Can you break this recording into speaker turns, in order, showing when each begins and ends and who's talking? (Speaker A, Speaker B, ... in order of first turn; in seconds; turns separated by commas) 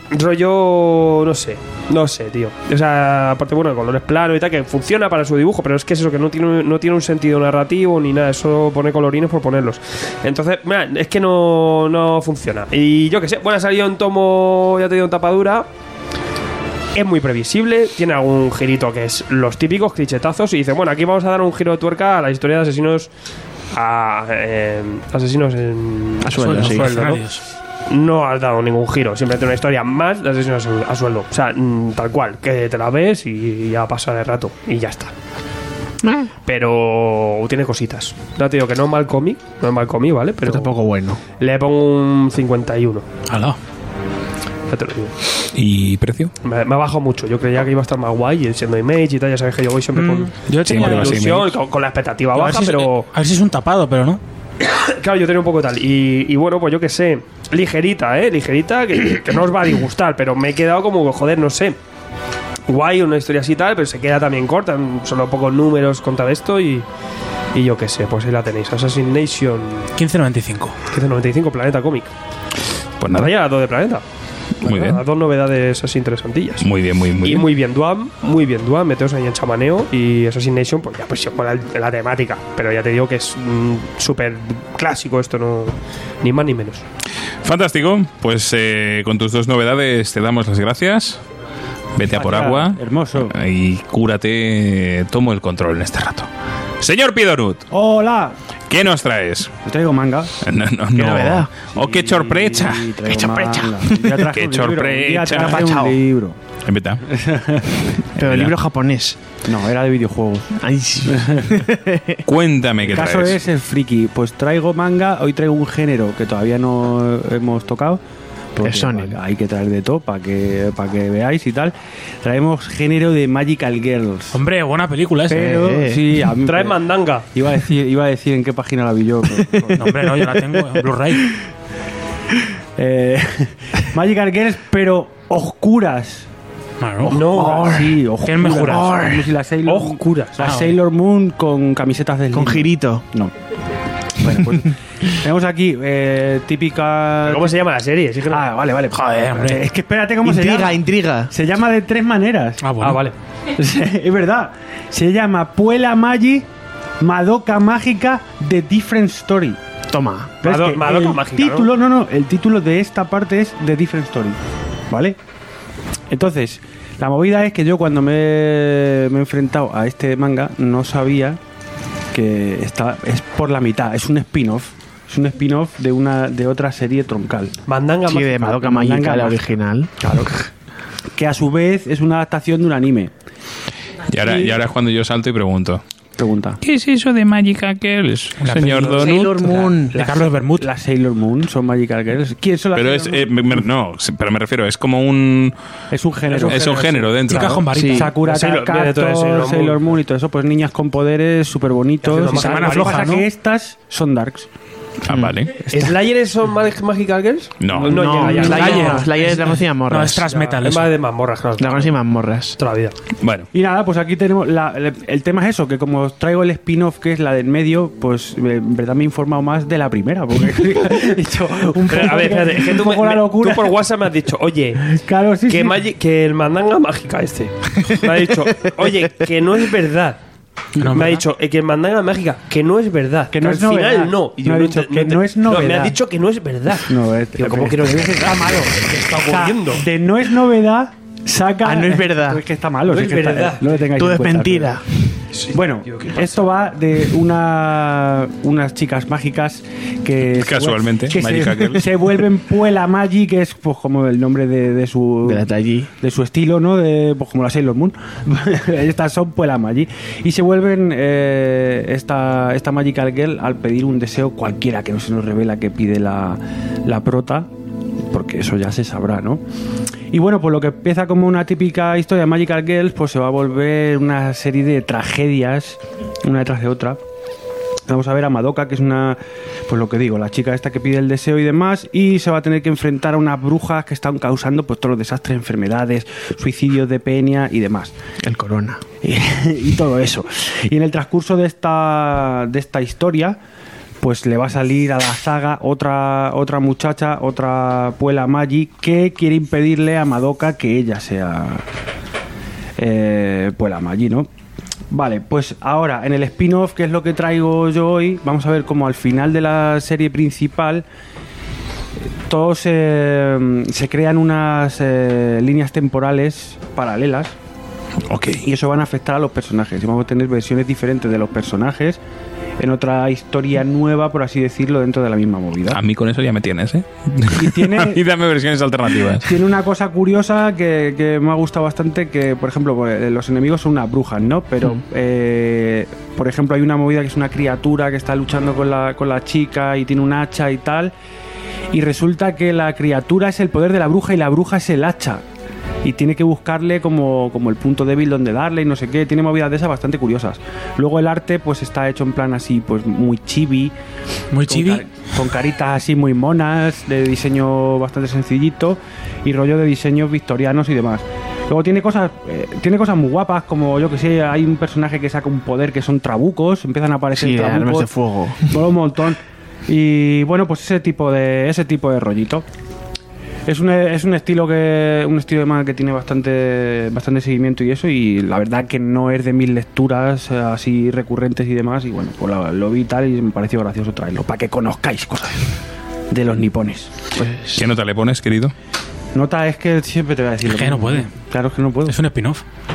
Speaker A: 0.1-15.7, Speaker A: 16.9-23.1, Speaker A: 23.7-35.1, Speaker B: 26.2-27.2, Speaker C: 26.3-27.4, Speaker B: 36.0-36.3, Speaker A: 36.4-40.7, Speaker B: 40.4-41.2, Speaker A: 41.4-43.1, Speaker C: 43.3-43.6, Speaker A: 44.7-45.1, Speaker D: 45.5-46.3, Speaker A: 46.4-53.1, Speaker C: 49.9-51.3, Speaker D: 50.6-51.6, Speaker C: 52.3-54.2, Speaker A: 54.6-61.8, Speaker A: 62.7-66.8, Speaker A: 67.5-69.9, Speaker C: 70.0-70.8, Speaker A: 70.9-72.1, Speaker D: 73.0-73.3, Speaker A: 73.1-74.0, Speaker A: 74.6-76.7, Speaker D: 74.6-75.0, Speaker D: 76.6-77.5, Speaker A: 77.2-86.8, Speaker D: 87.4-91.2, Speaker D: 91.9-96.3, Speaker E: 92.0-93.3, Speaker D: 96.8-97.6, Speaker E: 97.7-98.3, Speaker D: 98.7-99.5, Speaker E: 99.6-100.4, Speaker D: 100.4-103.0, Speaker B: 100.9-101.5, Speaker E: 101.7-106.4, Speaker B: 103.1-104.2, Speaker D: 104.3-105.6, Speaker B: 105.4-106.0, Speaker D: 106.7-107.0, Speaker E: 107.0-108.0, Speaker B: 108.2-109.2, Speaker D: 108.2-108.6, Speaker E: 109.4-111.6, Speaker B: 110.6-112.2, Speaker D: 112.2-113.4, Speaker E: 112.8-118.0, Speaker E: 118.5-124.4, Speaker B: 118.6-119.2, Speaker C: 124.3-125.4, Speaker E: 125.3-126.8, Speaker B: 125.3-126.0, Speaker A: 126.4-127.2, Speaker E: 127.3-130.8, Speaker C: 129.7-131.4, Speaker E: 132.8-136.3, Speaker C: 136.8-137.2, Speaker E: 137.0-143.3, Speaker A: 137.1-137.7, Speaker B: 137.3-138.0, Speaker C: 138.2-138.9, Speaker B: 138.6-139.3, Speaker A: 139.7-140.4, Speaker C: 140.4-140.7, Speaker B: 142.3-143.0, Speaker E: 144.2-147.5, Speaker A: 147.2-148.5, Speaker E: 148.3-152.7, Speaker C: 148.9-149.6, Speaker B: 150.2-151.3, Speaker C: 152.6-153.0, Speaker A: 152.8-153.2, Speaker E: 153.5-156.5, Speaker E: 157.0-159.6, Speaker B: 159.9-160.4, Speaker E: 160.4-164.4, Speaker A: 160.4-161.7, Speaker E: 164.9-165.2, Speaker E: 166.1-171.4, Speaker E: 172.1-177.6, Speaker A: 177.7-178.6, Speaker B: 178.1-179.9, Speaker E: 178.4-179.4, Speaker E: 180.0-180.3, Speaker E: 181.1-183.1, Speaker D: 184.1-185.8, Speaker E: 184.2-184.6, Speaker E: 186.2-186.6, Speaker D: 186.6-189.3, Speaker C: 188.4-189.1, Speaker B: 188.5-190.0, Speaker E: 189.4-193.6, Speaker C: 189.9-190.7, Speaker D: 192.7-195.5, Speaker E: 195.9-204.5, Speaker D: 196.4-197.6, Speaker C: 197.3-198.1, Speaker B: 197.7-198.1, Speaker A: 198.2-199.9, Speaker A: 202.0-203.2, Speaker C: 202.3-203.2, Speaker D: 205.0-205.5, Speaker B: 205.1-205.3, Speaker E: 205.7-205.9, Speaker A: 205.7-209.5, Speaker D: 207.6-207.9, Speaker B: 207.7-210.3, Speaker E: 208.2-208.8, Speaker C: 208.2-210.9, Speaker A: 210.2-211.9, Speaker B: 211.6-212.6, Speaker A: 212.6-213.0, Speaker D: 213.2-213.5, Speaker E: 213.5-223.8, Speaker A: 221.9-224.9, Speaker E: 224.8-225.8, Speaker A: 225.5-230.2, Speaker C: 230.8-231.2, Speaker A: 230.8-239.8, Speaker E: 233.3-236.0, Speaker E: 236.8-244.8, Speaker B: 241.6-242.4, Speaker A: 242.8-243.9, Speaker B: 243.9-244.8, Speaker A: 245.3-246.4, Speaker E: 245.5-255.5, Speaker D: 250.3-251.9, Speaker B: 255.2-255.9, Speaker E: 256.0-267.5, Speaker E: 268.0-269.4, Speaker E: 270.1-277.0, Speaker E: 277.9-287.9, Speaker B: 288.2-288.8, Speaker E: 289.0-293.4, Speaker E: 294.0-301.6, Speaker E: 302.8-304.3, Speaker E: 304.9-310.8, Speaker E: 312.1-317.3, Speaker D: 318.1-318.4, Speaker E: 318.4-322.0, Speaker E: 322.6-325.8, Speaker D: 325.7-329.3, Speaker E: 327.3-328.0, Speaker E: 329.1-340.9, Speaker E: 341.7-345.2, Speaker E: 345.8-353.7, Speaker C: 354.3-354.8, Speaker E: 354.4-367.9, Speaker B: 367.1-368.6, Speaker E: 368.4-372.4, Speaker E: 373.5-385.5, Speaker E: 386.1-386.9, Speaker B: 387.1-387.6, Speaker D: 387.5-388.5, Speaker E: 389.1-392.0, Speaker C: 390.5-391.1, Speaker C: 391.9-392.4